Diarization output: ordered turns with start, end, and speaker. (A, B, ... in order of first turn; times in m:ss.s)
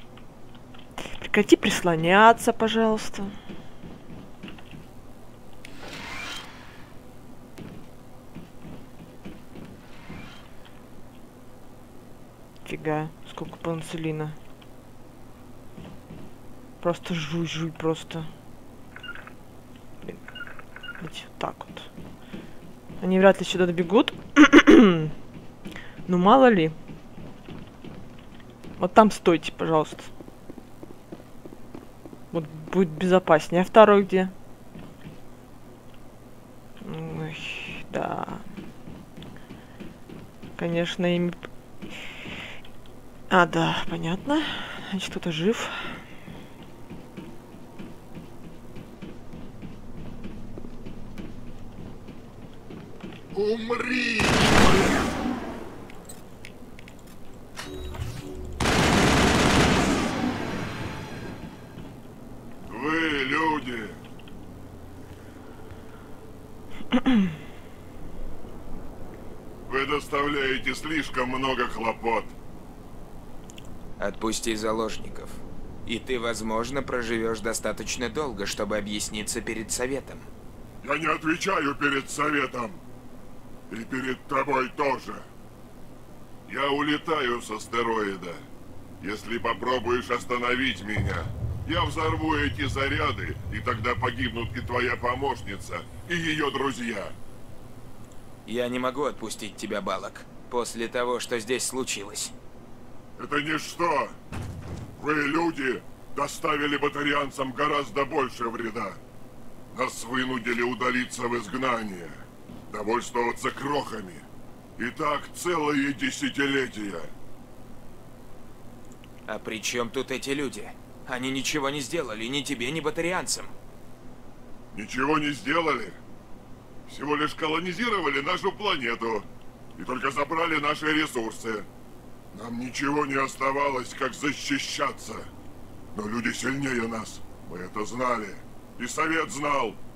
0:01.1-0:03.3 A
0:12.6-0:14.4 A
0:16.8-0:18.3 A
0:20.0-0:20.3 A
0:21.0-0:21.9 A
0:23.0-0:25.1 A
0:26.1-0:26.7 A
0:28.8-0:30.1 A
0:32.3-0:34.3 A
0:36.8-0:38.4 A
0:40.6-0:41.4 A
0:43.3-0:45.8 A
0:53.3-0:55.1 B
1:02.7-1:04.0 B
1:09.7-1:12.3 B
1:14.0-1:20.3 C
1:20.8-1:22.8 B
1:23.7-1:25.3 B
1:26.5-1:28.4 B
1:29.0-1:37.1 B
1:38.5-1:42.3 C
1:43.2-1:44.2 B
1:45.0-1:49.0 B
1:49.7-1:52.2 B
1:52.7-1:54.2 B
1:54.8-1:57.1 B
1:59.3-2:03.5 C
2:04.7-2:06.0 B
2:06.9-2:11.7 B
2:12.3-2:15.3 B
2:16.0-2:19.8 B